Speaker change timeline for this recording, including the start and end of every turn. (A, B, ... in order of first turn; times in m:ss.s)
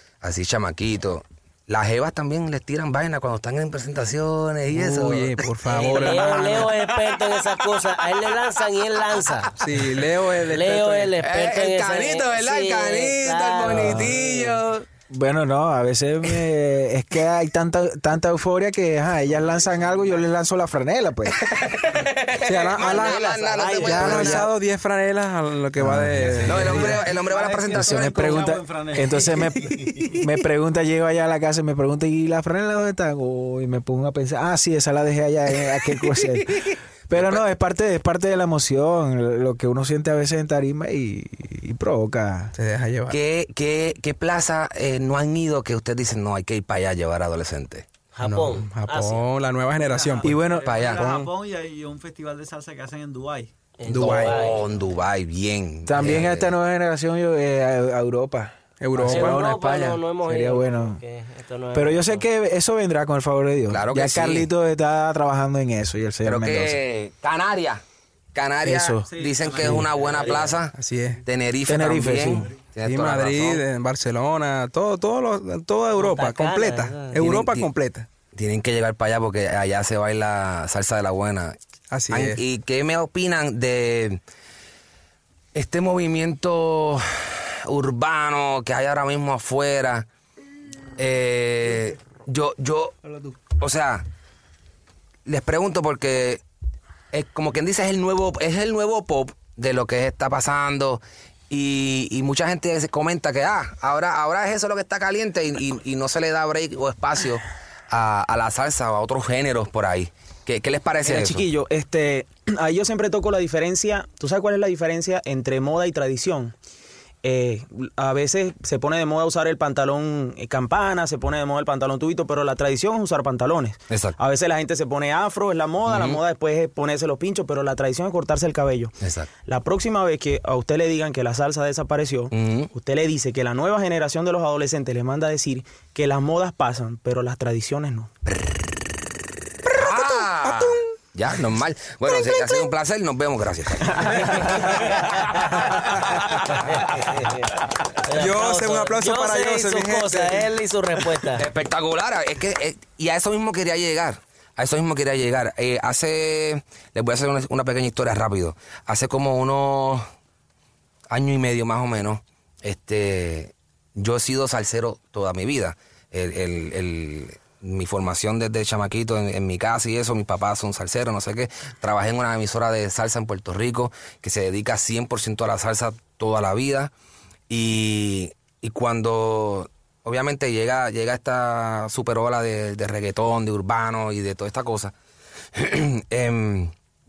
0:00.2-0:07.8 A
0:04.7-0:06.7 B
0:05.7-0:09.5 C
0:09.2-0:10.1 A
0:09.6-0:11.1 B
0:10.5-0:14.5 C
0:11.2-0:14.8 A
0:13.6-0:14.0 D
0:15.1-0:21.5 D
0:21.5-0:24.5 A
0:22.4-0:27.0 B
0:23.5-0:24.1 C
0:23.8-0:24.5 D
0:25.8-0:26.8 D
0:26.4-0:28.6 A
0:26.4-0:30.0 E
0:27.7-0:42.5 D
0:37.1-0:37.4 A
0:42.6-0:43.2 B
0:43.1-0:47.9 A
0:48.1-0:49.2 C
0:48.2-0:51.3 B
0:49.8-0:53.5 E
0:50.2-0:50.8 D
0:50.6-0:51.2 A
0:53.8-0:54.6 C
0:53.9-0:54.3 B
0:53.9-0:56.5 A
0:55.9-1:01.0 D
0:58.8-0:59.5 B
0:59.1-1:02.3 C
1:01.7-1:06.8 D
1:03.7-1:04.5 A
1:06.2-1:07.8 A
1:08.3-1:13.6 A
1:08.6-1:09.9 D
1:09.1-1:10.5 E
1:10.2-1:10.5 C
1:10.8-1:11.2 B
1:11.7-1:12.5 D
1:12.8-1:18.1 B
1:16.0-1:17.2 C
1:17.1-1:17.7 A
1:18.3-1:21.6 A
1:21.9-1:22.4 B
1:22.1-1:24.2 A
1:25.6-1:30.1 A
1:31.0-1:33.0 A
1:33.5-1:34.0 A
1:35.3-1:36.4 A
1:37.1-1:51.5 A
1:51.0-1:56.5 F
1:57.2-2:18.1 F
2:03.9-2:04.2 A
2:05.9-2:06.2 A
2:09.0-2:09.3 A
2:12.3-2:12.7 A
2:18.3-2:18.6 A
2:19.7-2:26.2 A
2:20.0-2:20.7 B
2:26.6-2:27.5 C
2:28.0-2:31.5 C
2:28.1-2:30.5 B
2:31.3-2:40.0 A
2:41.1-2:56.9 A
2:57.5-3:04.9 A
3:05.6-3:06.7 A